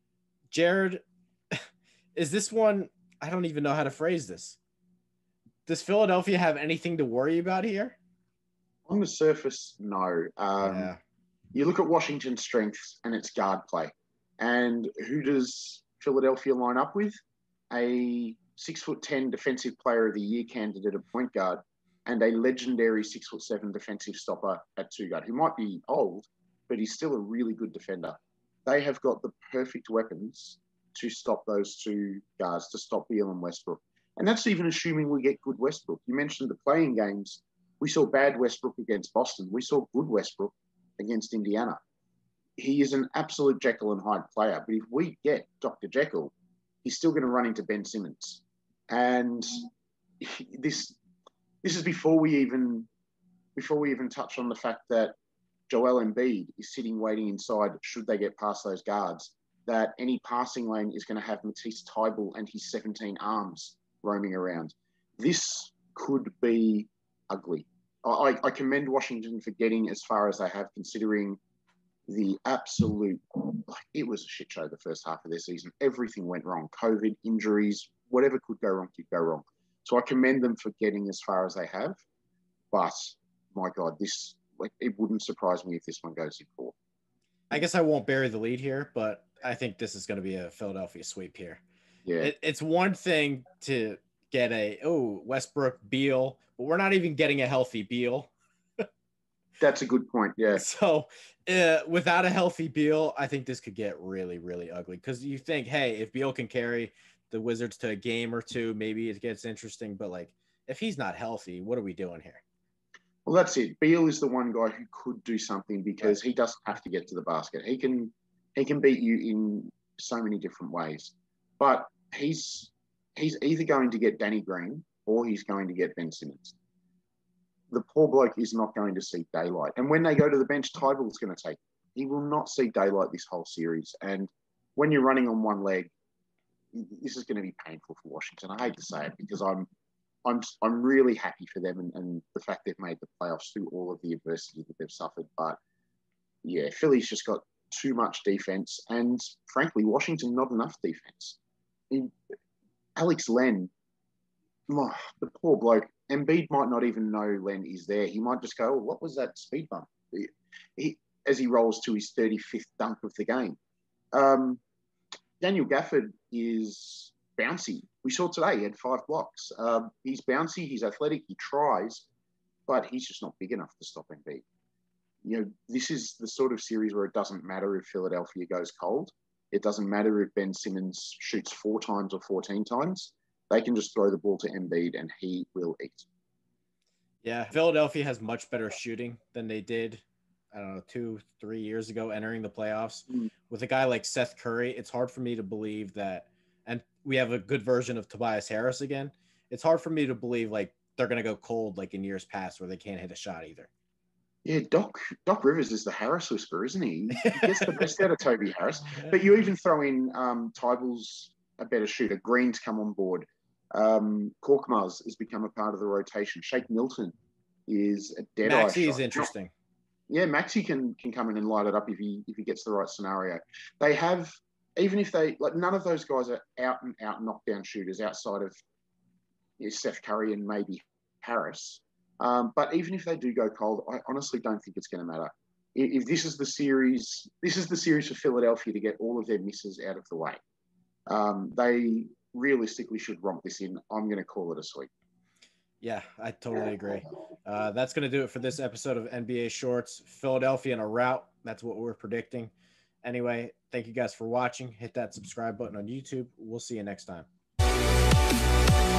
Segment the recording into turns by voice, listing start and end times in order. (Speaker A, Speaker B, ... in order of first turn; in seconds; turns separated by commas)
Speaker A: 0.5-1.0, Speaker A: 2.1-4.6, Speaker A: 5.7-8.0, Speaker B: 8.9-10.9, Speaker A: 10.6-11.0, Speaker B: 11.5-17.1, Speaker B: 17.7-41.8, Speaker B: 42.6-46.3, Speaker B: 46.8-49.6, Speaker B: 50.2-51.0, Speaker B: 51.6-52.9, Speaker B: 53.5-55.1, Speaker B: 55.7-71.4, Speaker B: 72.1-82.0, Speaker B: 82.7-86.7, Speaker A: 87.5-91.6, Speaker B: 92.0-92.3, Speaker A: 92.2-98.3, Speaker B: 99.6-100.6, Speaker A: 100.5-112.4, Speaker B: 113.2-126.6, Speaker B: 127.7-135.9, Speaker B: 136.7-139.7, Speaker B: 140.2-145.6, Speaker B: 146.4-151.4, Speaker B: 152.9-153.7, Speaker B: 154.7-163.6, Speaker B: 164.1-164.6, Speaker B: 165.4-172.1, Speaker B: 172.7-174.4, Speaker B: 175.2-186.1, Speaker A: 187.2-203.7, Speaker B: 204.4-217.1, Speaker A: 207.2-208.1, Speaker B: 217.7-219.3, Speaker A: 218.4-219.5, Speaker B: 220.1-228.6, Speaker B: 229.6-240.4, Speaker B: 241.1-244.9, Speaker A: 245.8-252.5, Speaker A: 253.0-257.2